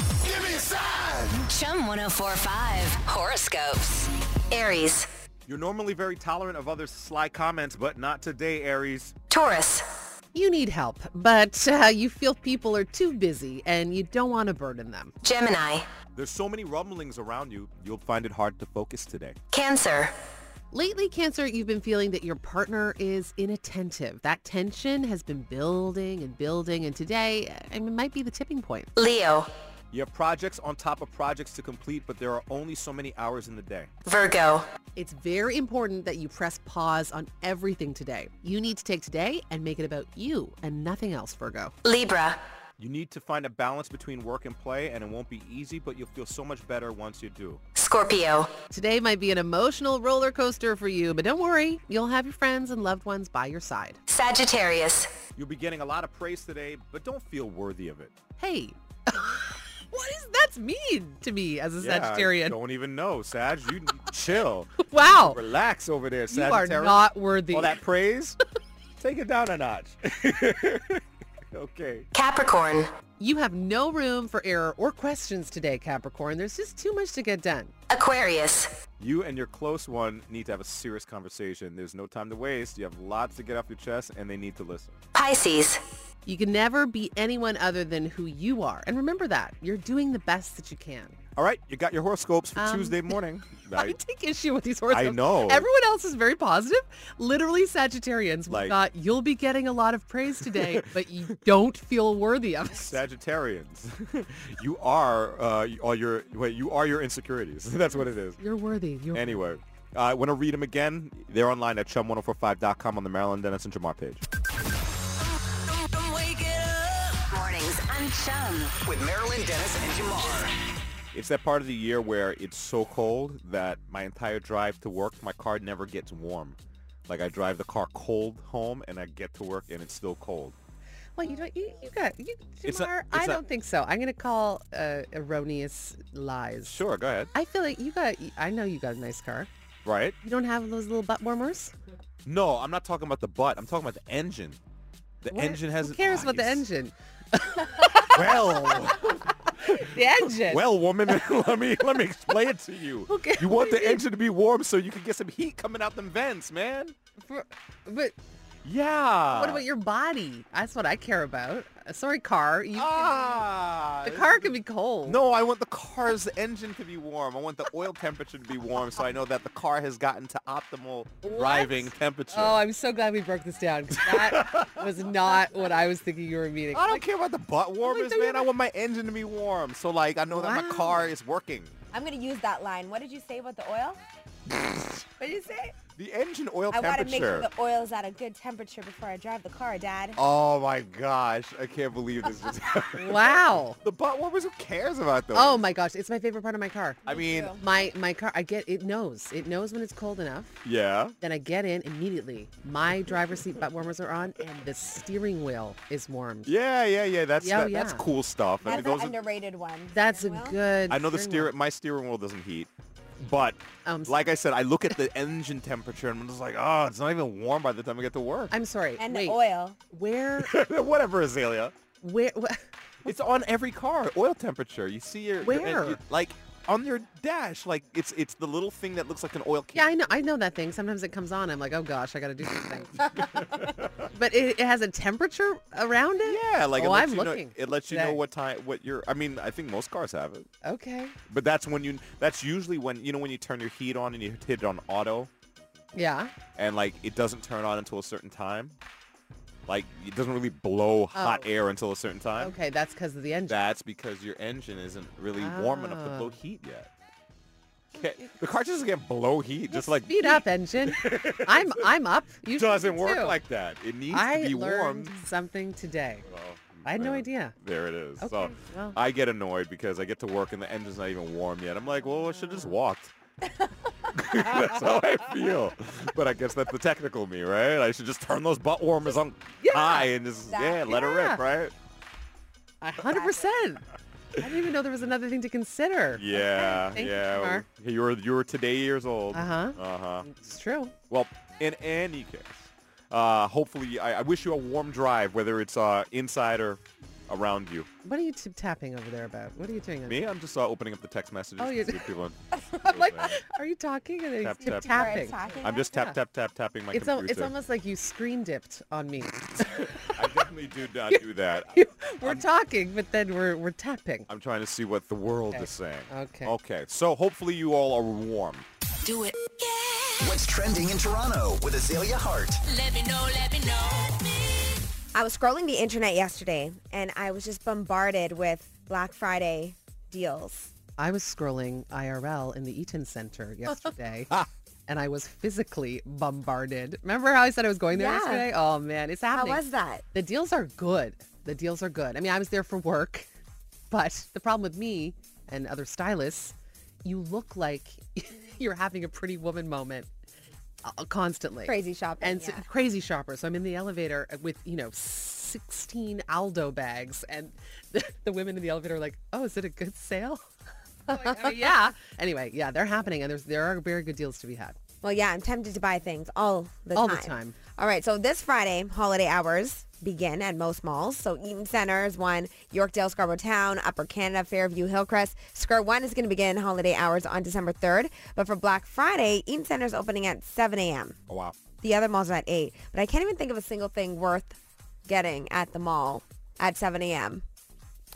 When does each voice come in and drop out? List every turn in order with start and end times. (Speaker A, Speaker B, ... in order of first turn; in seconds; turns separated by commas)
Speaker A: 0.3-5.1, Speaker B: 5.5-9.1, Speaker A: 9.3-9.8, Speaker C: 10.3-15.1, Speaker A: 15.2-15.8, Speaker B: 16.1-19.4, Speaker A: 19.5-20.1, Speaker C: 20.7-28.9, Speaker A: 28.9-29.5, Speaker B: 29.9-33.9, Speaker A: 34.0-34.7, Speaker C: 35.0-41.7, Speaker A: 41.8-42.4, Speaker B: 42.8-47.6, Speaker A: 47.8-48.5, Speaker C: 48.7-54.0, Speaker A: 54.1-55.1, Speaker B: 55.4-58.1, Speaker C: 58.4-62.6, Speaker B: 61.8-68.4, Speaker C: 64.8-65.4, Speaker C: 66.3-67.8, Speaker B: 69.0-72.1, Speaker A: 72.1-72.9, Speaker C: 73.2-77.7, Speaker A: 77.9-78.7, Speaker B: 79.0-85.0, Speaker A: 85.1-85.8, Speaker C: 86.2-91.2, Speaker B: 91.3-94.0, Speaker C: 92.6-93.2, Speaker C: 93.7-103.0, Speaker B: 94.9-95.7, Speaker B: 98.5-98.8, Speaker B: 100.4-101.4, Speaker B: 102.7-108.4, Speaker C: 108.3-109.5, Speaker B: 109.1-114.2, Speaker A: 115.7-118.8, Speaker D: 118.8-120.5, Speaker B: 121.1-130.6, Speaker C: 131.2-136.8, Speaker B: 132.6-133.4, Speaker B: 136.6-137.3, Speaker C: 137.3-139.5, Speaker B: 139.8-140.2, Speaker C: 140.2-141.7, Speaker B: 142.2-144.6, Speaker B: 145.2-146.7, Speaker C: 145.3-150.6, Speaker B: 148.1-156.9, Speaker C: 153.1-154.0, Speaker C: 157.2-158.1, Speaker B: 158.6-159.6, Speaker C: 159.3-163.4, Speaker B: 162.7-164.5, Speaker C: 164.0-165.2, Speaker B: 165.0-172.6, Speaker C: 171.2-177.0, Speaker B: 173.9-175.3, Speaker B: 176.7-181.8, Speaker C: 177.8-178.5, Speaker C: 180.3-181.0, Speaker E: 181.9-184.0, Speaker B: 184.5-185.0, Speaker E: 185.2-185.8, Speaker B: 185.9-187.5, Speaker E: 186.7-190.2, Speaker B: 190.2-195.6, Speaker C: 192.9-193.8, Speaker C: 195.3-197.1, Speaker B: 197.1-197.5, Speaker E: 197.1-197.6, Speaker C: 197.6-200.6, Speaker B: 200.6-201.1, Speaker C: 201.2-206.5, Speaker B: 206.4-209.2, Speaker C: 207.4-208.0, Speaker E: 208.6-210.6, Speaker C: 209.9-211.5, Speaker B: 210.9-218.5, Speaker C: 213.8-214.2, Speaker C: 218.5-220.5, Speaker E: 219.0-219.8, Speaker B: 220.4-221.7, Speaker C: 222.0-222.6, Speaker B: 223.0-229.9, Speaker C: 225.4-226.0, Speaker C: 229.7-238.2, Speaker B: 232.9-234.1, Speaker B: 236.2-240.5, Speaker C: 240.6-241.2, Speaker B: 241.3-245.3, Speaker C: 245.9-246.3, Speaker B: 246.5-248.8, Speaker B: 249.7-252.6, Speaker C: 251.1-251.5, Speaker C: 252.4-253.6, Speaker B: 253.5-256.9, Speaker C: 255.3-256.3, Speaker B: 257.9-261.9, Speaker C: 257.9-258.4, Speaker C: 259.7-263.4, Speaker B: 262.5-265.2, Speaker C: 264.1-266.3, Speaker B: 266.2-273.1, Speaker C: 266.8-267.5, Speaker C: 268.2-269.0, Speaker B: 274.1-281.7, Speaker C: 279.6-280.1, Speaker E: 280.5-281.0, Speaker C: 280.9-281.4, Speaker C: 282.8-283.9, Speaker C: 284.4-287.6, Speaker B: 286.1-290.3, Speaker C: 289.3-290.9, Speaker B: 291.1-297.9, Speaker C: 298.0-300.2, Speaker B: 300.1-303.4, Speaker C: 301.6-302.1, Speaker C: 302.8-306.2, Speaker B: 304.4-307.5, Speaker E: 304.6-305.9, Speaker C: 306.9-310.1, Speaker B: 309.6-312.5, Speaker C: 311.1-314.3, Speaker B: 314.3-318.6, Speaker C: 315.5-316.5, Speaker A: 319.0-320.4, Speaker D: 320.2-322.6, Speaker A: 322.6-324.4, Speaker E: 325.1-330.7, Speaker C: 331.0-334.3, Speaker C: 334.9-343.3, Speaker E: 337.9-338.5, Speaker E: 339.3-340.0, Speaker C: 343.9-350.1, Speaker C: 350.8-360.4, Speaker E: 351.6-352.6, Speaker C: 361.1-364.8, Speaker E: 365.0-381.2, Speaker C: 366.9-367.6, Speaker B: 381.3-381.6, Speaker E: 381.8-387.4